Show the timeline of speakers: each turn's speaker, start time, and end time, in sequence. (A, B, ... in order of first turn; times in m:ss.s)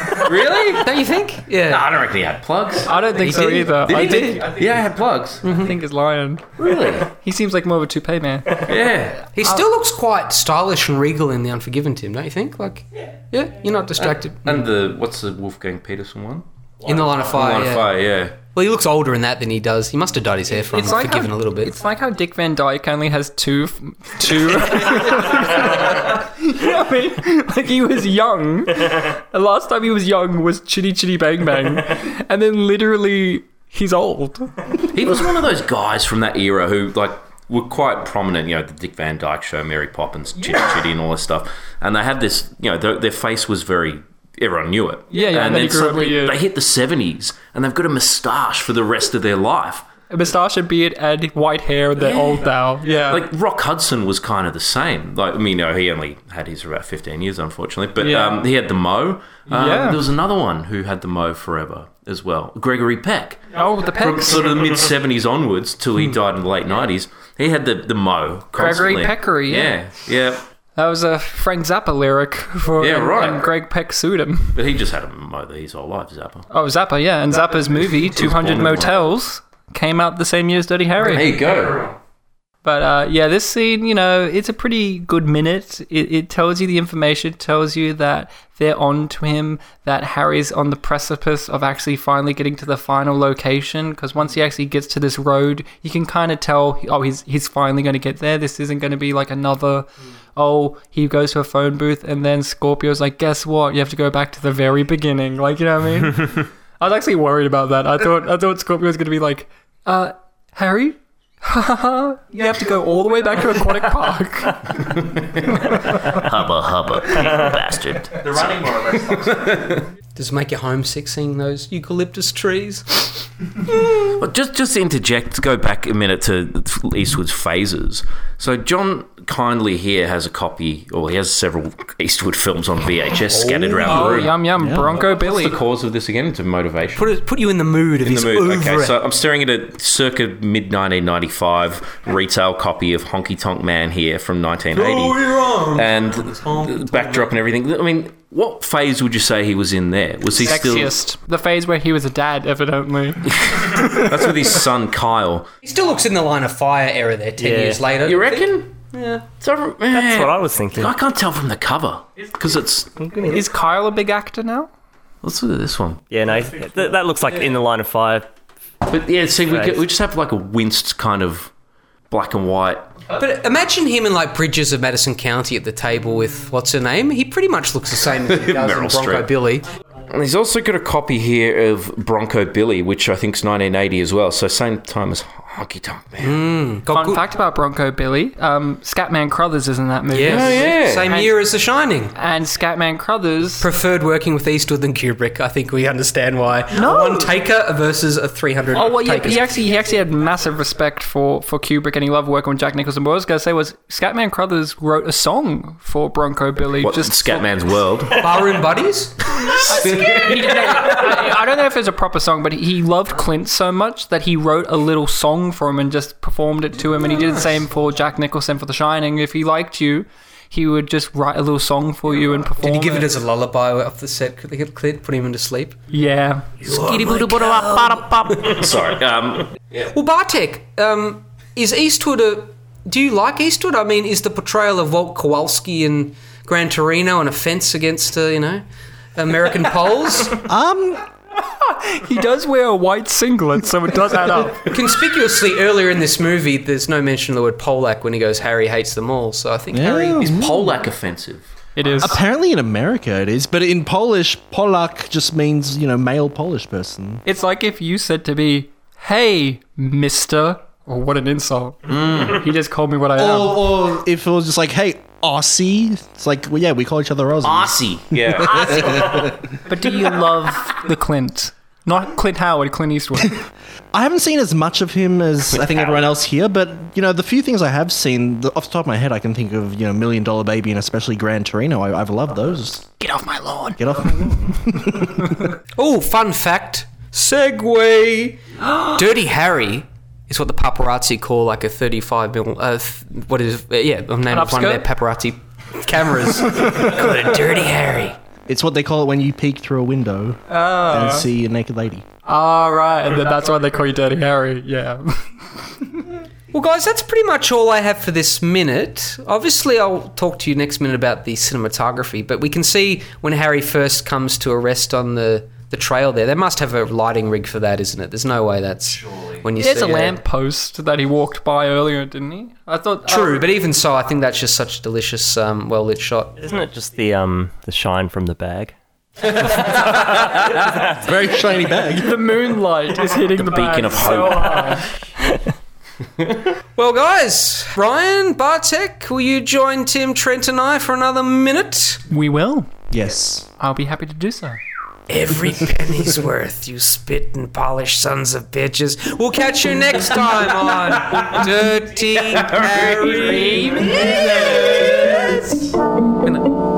0:00.2-0:00.9 A
0:00.7-0:01.8 B
0:01.6-0:05.6 A
0:02.8-0:04.5 C
0:03.3-0:03.6 B
0:05.4-0:05.7 B
0:05.5-0:06.4 C
0:06.6-0:07.1 A
0:07.0-0:08.7 C
0:08.6-0:09.2 A
0:09.2-0:14.6 B
0:14.0-0:16.4 A
0:16.8-0:17.9 B
0:17.1-0:18.4 A
0:18.5-0:21.7 B
0:20.7-0:34.5 C
0:34.9-0:49.8 A
0:45.1-0:46.4 C
0:50.1-0:53.2 C
0:52.0-0:52.4 A
0:53.1-1:10.4 A
0:58.0-0:58.4 C
0:59.5-1:00.0 C
1:03.5-1:04.5 C
1:08.5-1:09.8 C
1:10.8-1:14.6 C
1:12.8-1:13.5 A
1:14.5-1:16.4 A
1:16.5-1:21.3 C
1:18.0-1:18.9 A
1:21.0-1:21.9 A
1:22.6-1:54.9 C
1:54.8-1:59.8 A
1:55.5-1:56.0 C
2:00.2-2:03.2 B
2:04.0-2:14.3 A
2:13.3-2:14.3 B
2:13.8-2:15.6 C
2:14.6-2:14.9 D
2:14.8-2:17.1 A
2:17.0-2:18.9 B
2:18.0-2:30.9 A
2:25.3-2:25.6 B
2:30.4-2:34.1 C
2:33.3-2:35.5 A
2:35.6-2:39.2 B
2:37.4-2:37.8 E
2:38.0-2:38.8 A
2:39.4-2:43.0 A
2:39.9-2:40.9 E
2:43.0-2:43.4 E
2:43.3-2:44.7 C
2:45.2-2:46.0 A
2:46.1-2:48.3 E
2:48.9-2:51.5 A
2:49.5-2:49.8 E
2:52.1-2:53.0 A
2:53.2-2:59.7 B
2:58.2-2:59.3 A
3:00.1-3:06.4 A
3:06.2-3:07.2 B
3:06.9-3:11.3 C
3:10.1-3:12.1 B
3:10.3-3:11.1 A
3:12.1-3:13.7 C
3:13.6-3:19.5 B
3:16.7-3:17.3 C
3:18.7-3:27.5 C
3:26.8-3:28.6 A
3:28.2-3:29.2 B
3:29.4-3:31.0 A
3:29.5-3:43.1 C
3:42.6-3:45.8 B
3:45.9-3:46.7 C
3:46.6-3:48.7 B
3:46.6-3:49.6 A
3:49.8-3:58.6 B
3:59.1-4:00.4 B
4:00.4-4:01.0 D
4:01.5-4:04.8 C
4:04.6-4:10.3 B
4:09.7-4:10.8 D
4:10.2-4:11.5 A
4:11.8-4:12.2 C
4:12.0-4:17.2 D
4:17.2-4:23.7 C
4:21.9-4:22.4 A
4:23.2-4:29.3 D
4:27.4-4:29.4 A
4:29.6-4:33.5 C
4:33.9-4:42.9 D
4:43.0-4:43.8 C
4:43.8-4:45.5 D
4:45.8-4:58.2 B
4:54.3-4:54.9 C
4:58.5-5:02.0 D
5:00.5-5:01.3 C
5:02.2-5:06.0 C
5:06.5-5:20.2 B
5:19.6-5:23.4 C
5:23.1-5:26.4 B
5:26.4-5:28.8 E
5:29.8-5:30.1 A
5:30.8-5:32.2 D
5:32.0-5:34.9 C
5:33.3-5:34.8 A
5:36.8-5:42.0 B
5:42.1-5:42.7 C
5:42.9-5:43.4 D
5:43.6-5:44.6 C
5:45.1-5:55.7 B
5:51.1-5:51.4 A
5:52.1-5:54.9 A
5:53.2-5:54.1 C